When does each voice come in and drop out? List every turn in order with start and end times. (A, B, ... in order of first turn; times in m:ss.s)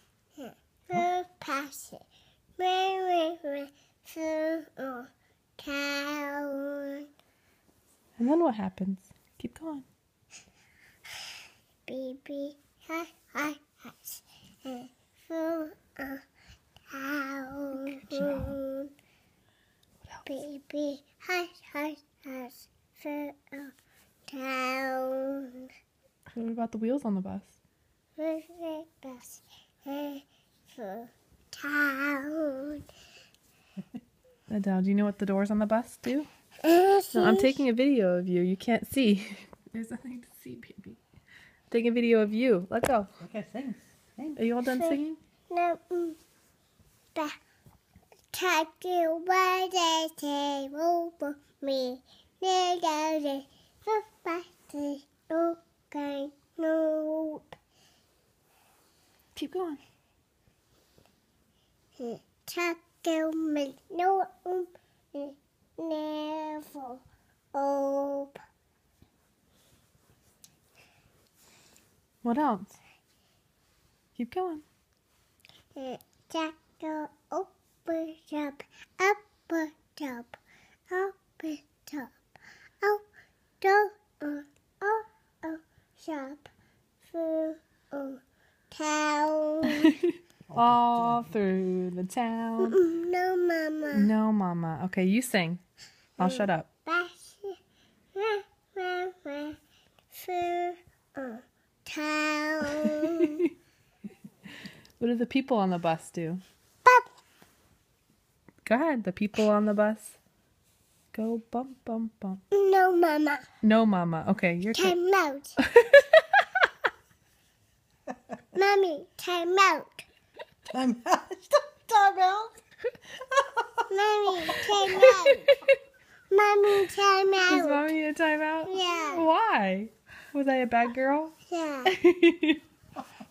0:00.4-0:02.0 A
0:02.6-0:07.1 A
0:08.2-0:09.8 B
0:11.8-0:16.2 A
0:16.9-0:18.9 A
0:17.7-0:18.6 B
0:20.0-0:20.4 B
0:20.2-0:23.7 A
0:24.3-0:25.7 A
0:26.3-0:27.6 B
0:28.2-0:32.8 A
0:34.5-0:36.3 B
0:36.6-0:37.6 A
0:37.1-0:41.0 B
0:41.7-0:43.1 B
0:43.2-0:44.4 C
0:44.4-0:45.2 B
0:44.7-0:45.0 A
0:45.5-0:46.2 A
0:48.3-0:57.6 A
0:59.3-0:59.8 B
1:02.0-1:07.0 A
1:07.5-1:08.4 A
1:12.2-1:12.8 B
1:14.2-1:14.6 B
1:15.8-1:22.1 A
1:23.6-1:26.5 A
1:27.0-1:28.2 A
1:28.7-1:29.9 A
1:29.7-1:32.8 B
1:32.6-1:34.1 A
1:33.9-1:35.6 B
1:36.2-1:36.7 B
1:36.2-1:37.6 A
1:38.1-1:39.6 A
1:40.1-1:43.4 A
1:42.8-1:43.4 B
1:45.0-1:46.4 B
1:48.6-1:50.2 B
1:51.1-1:52.4 B
1:52.5-1:53.5 A
1:53.6-1:55.0 B
1:54.7-1:55.5 A
1:55.6-1:56.7 B
1:58.5-2:00.0 A
2:00.7-2:02.6 C
2:03.4-2:03.8 C
2:03.9-2:05.5 A
2:04.5-2:05.8 B
2:06.3-2:07.8 A
2:07.4-2:11.3 B
2:08.6-2:09.3 A
2:11.5-2:11.9 A
2:11.8-2:12.6 B